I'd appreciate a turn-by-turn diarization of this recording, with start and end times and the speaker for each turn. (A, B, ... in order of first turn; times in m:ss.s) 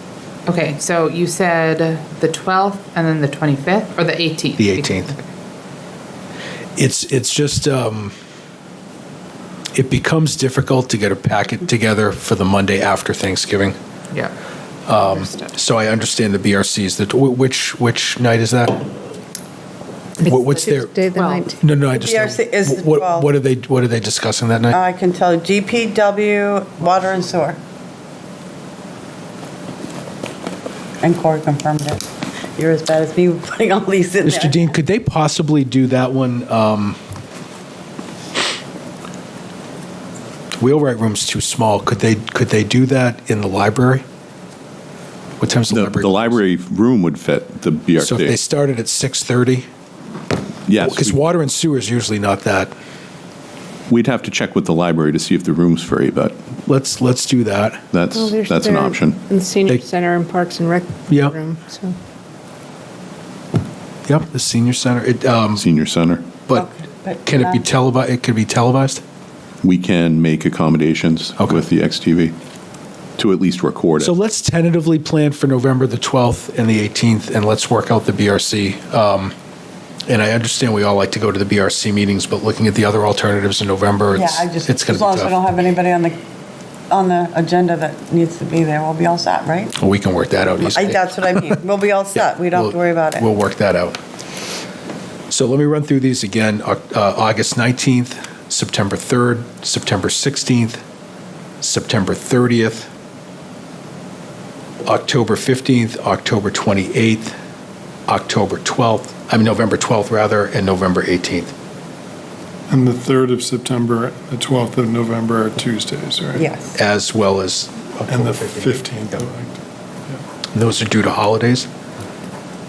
0:00.5-0:05.3 A
0:04.6-0:05.1 B
0:06.8-0:08.1 B
0:09.7-0:13.8 B
0:14.9-0:18.9 B
0:15.0-0:15.5 A
0:20.2-0:21.6 C
0:20.2-0:20.9 B
0:21.2-0:21.5 A
0:21.6-0:24.8 B
0:21.9-0:23.3 D
0:24.7-0:27.6 D
0:31.0-0:32.0 D
0:32.6-0:34.7 D
0:34.2-0:37.0 B
0:40.6-0:44.0 B
0:45.4-0:46.4 B
0:45.7-0:48.4 E
0:48.0-0:49.7 B
0:50.7-0:51.2 E
0:50.8-0:52.7 B
0:53.9-0:56.4 E
0:56.7-0:57.8 B
0:57.9-0:59.2 E
0:58.1-1:01.9 C
1:01.1-1:01.3 B
1:04.1-1:05.6 B
1:05.6-1:06.3 E
1:06.5-1:07.6 D
1:07.2-1:09.0 B
1:09.6-1:12.3 E
1:13.2-1:14.1 E
1:14.0-1:19.3 B
1:20.1-1:25.4 B
1:24.2-1:26.2 D
1:26.9-1:29.7 D
1:29.8-1:31.2 B
1:30.6-1:33.3 D
1:32.2-1:34.0 B
1:35.3-1:40.8 B
1:41.6-1:42.9 B
1:44.8-1:47.3 B
1:48.1-1:51.5 B
1:52.7-1:56.5 F
1:56.4-1:56.7 D
1:56.7-1:59.3 B
1:58.1-1:59.6 F
2:00.5-2:01.7 B